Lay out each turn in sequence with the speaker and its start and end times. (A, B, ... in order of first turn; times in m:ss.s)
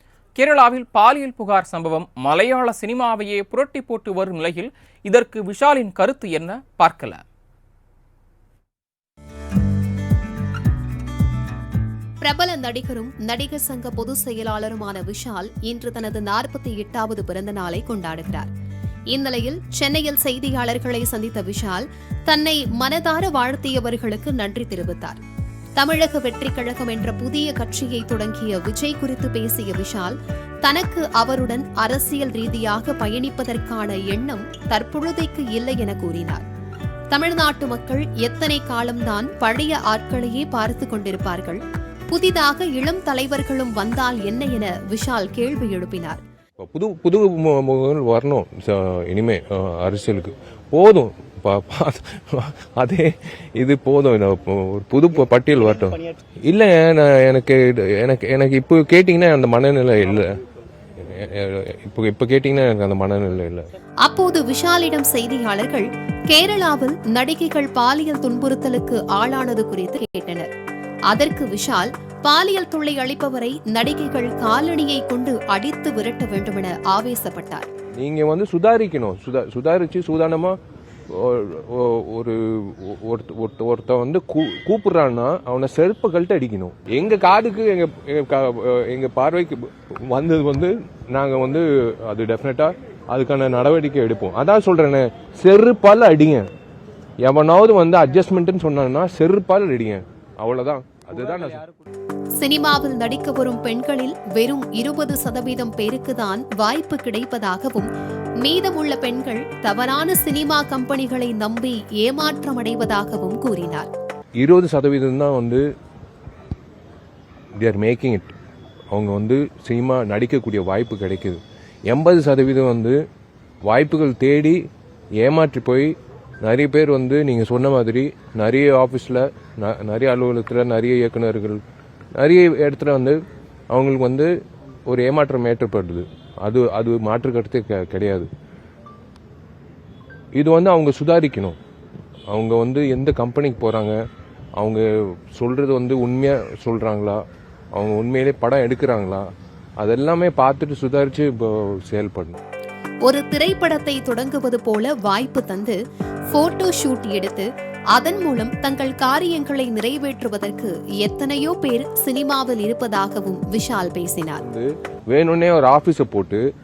0:00.4-0:07.2 A
0:12.2-0:18.5 B
0:19.1-0:25.2 B
0:25.8-0:36.4 B
0:37.1-0:46.2 B
0:46.6-1:00.3 C
1:01.0-1:03.7 C
1:04.0-1:10.5 B
1:11.1-1:17.7 B
1:18.0-1:20.6 C
1:21.1-1:36.4 C
1:37.2-1:41.6 C
1:42.4-1:47.9 B
1:48.4-1:53.9 B
1:54.4-1:55.6 C
1:57.6-1:58.3 C
1:58.9-2:03.0 C
2:03.6-2:04.6 C
2:05.2-2:11.6 C
2:12.2-2:13.2 C
2:13.7-2:14.3 C
2:14.9-2:18.3 C
2:20.3-2:21.6 C
2:22.3-2:24.0 C
2:24.6-2:27.2 C
2:27.7-2:29.3 C
2:29.8-2:32.4 C
2:33.0-2:35.8 B
2:36.3-2:44.4 B
2:44.4-2:46.4 C